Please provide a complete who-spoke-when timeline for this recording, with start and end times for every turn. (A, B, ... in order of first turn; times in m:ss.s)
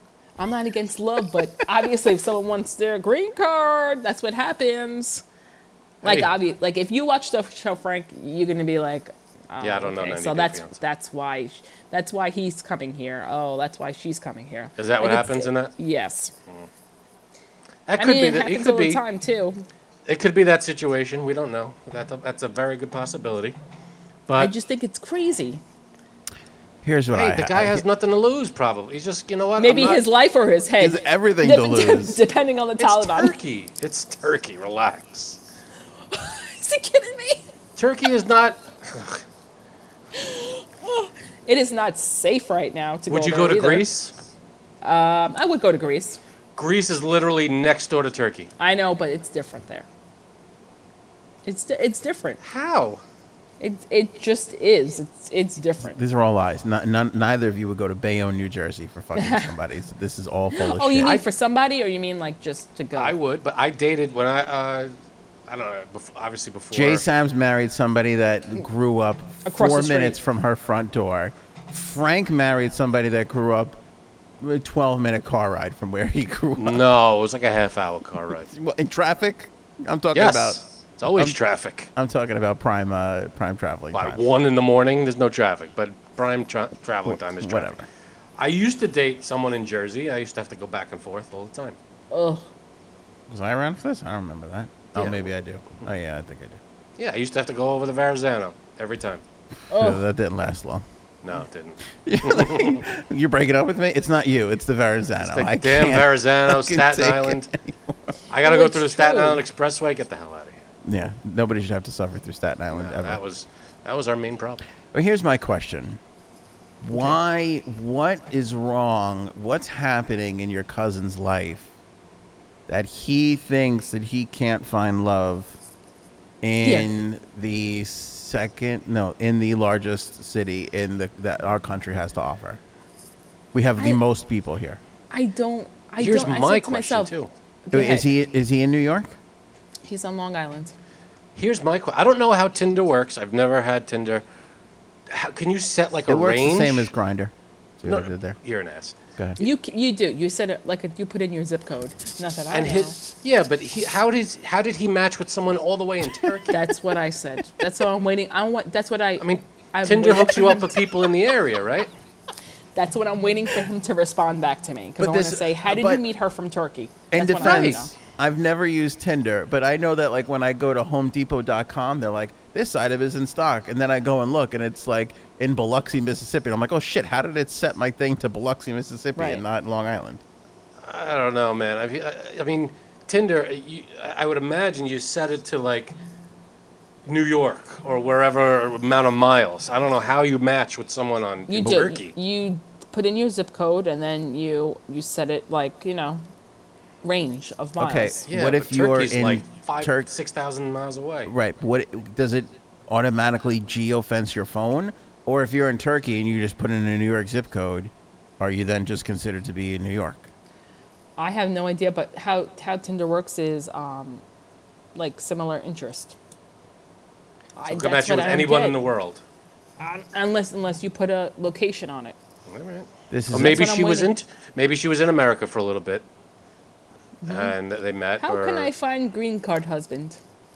0:00.4-0:05.2 A
0:06.0-0:16.3 A
0:06.0-0:06.3 B
0:09.6-0:10.8 B
0:14.8-0:15.7 B
0:17.9-0:19.0 B
0:18.0-0:19.6 A
0:20.1-0:23.6 B
0:24.3-0:24.5 B
0:24.4-0:25.6 A
0:26.8-0:27.8 C
0:27.1-0:30.0 B
0:29.6-0:33.4 A
0:30.8-0:32.2 C
0:32.8-0:35.4 B
0:36.1-0:37.5 A
0:37.8-0:39.2 B
0:40.1-0:43.9 A
0:43.1-0:44.1 B
0:44.8-0:46.2 A
0:46.6-0:48.5 B
0:48.6-0:49.9 A
0:51.5-0:52.4 A
0:52.4-0:53.0 B
0:53.6-0:56.0 A
0:55.9-1:01.2 C
0:59.2-0:59.5 A
1:00.5-1:03.2 A
1:02.9-1:04.9 B
1:05.5-1:07.0 B
1:06.7-1:13.8 C
1:09.4-1:10.2 A
1:14.4-1:16.8 C
1:16.6-1:18.5 B
1:18.5-1:20.6 C
1:20.1-1:21.9 B
1:21.1-1:21.4 C
1:21.9-1:24.2 C
1:23.9-1:27.8 B
1:27.0-1:27.8 C
1:28.4-1:31.8 B
1:32.1-1:32.5 A
1:33.3-1:36.6 C
1:34.9-1:35.3 B
1:37.0-1:39.2 B
1:39.7-1:40.0 A
1:39.8-1:40.8 C
1:41.2-1:42.8 B
1:42.0-1:48.1 C
1:45.2-1:47.5 B
1:48.3-1:50.6 B
1:48.4-1:49.4 A
1:50.8-1:53.2 C
1:52.7-1:54.6 B
1:54.9-1:56.0 C
1:56.8-2:01.7 C
2:02.7-2:05.6 C
2:06.4-2:12.6 C
2:06.6-2:06.9 A
2:13.5-2:14.8 C
2:15.1-2:17.1 A
2:16.0-2:17.3 B
2:17.7-2:18.1 A
2:17.7-2:19.2 C
2:19.8-2:20.7 A
2:21.4-2:24.2 B
2:25.1-2:26.9 B
2:26.1-2:28.4 C
2:27.8-2:29.0 B
2:29.4-2:33.0 A
2:32.5-2:36.6 B
2:36.5-2:40.8 A
2:39.2-2:41.9 B
2:42.8-2:47.9 A
2:45.0-2:46.0 C
2:47.1-3:00.2 C
2:47.4-2:47.9 B
2:59.2-2:59.4 A
3:00.8-3:05.9 B
3:07.1-3:12.2 B
3:11.5-3:16.2 A
3:17.0-3:18.2 A
3:17.8-3:20.1 C
3:18.3-3:21.3 B
3:21.2-3:30.3 C
3:31.2-3:34.2 A
3:35.0-3:36.2 A
3:37.6-3:38.8 A
3:37.7-3:39.2 B
3:39.8-3:42.2 A
3:42.5-3:46.1 B
3:43.1-3:43.7 C
3:43.3-3:44.2 A
3:47.2-3:47.6 A
3:47.3-3:48.7 B
3:48.2-3:50.2 A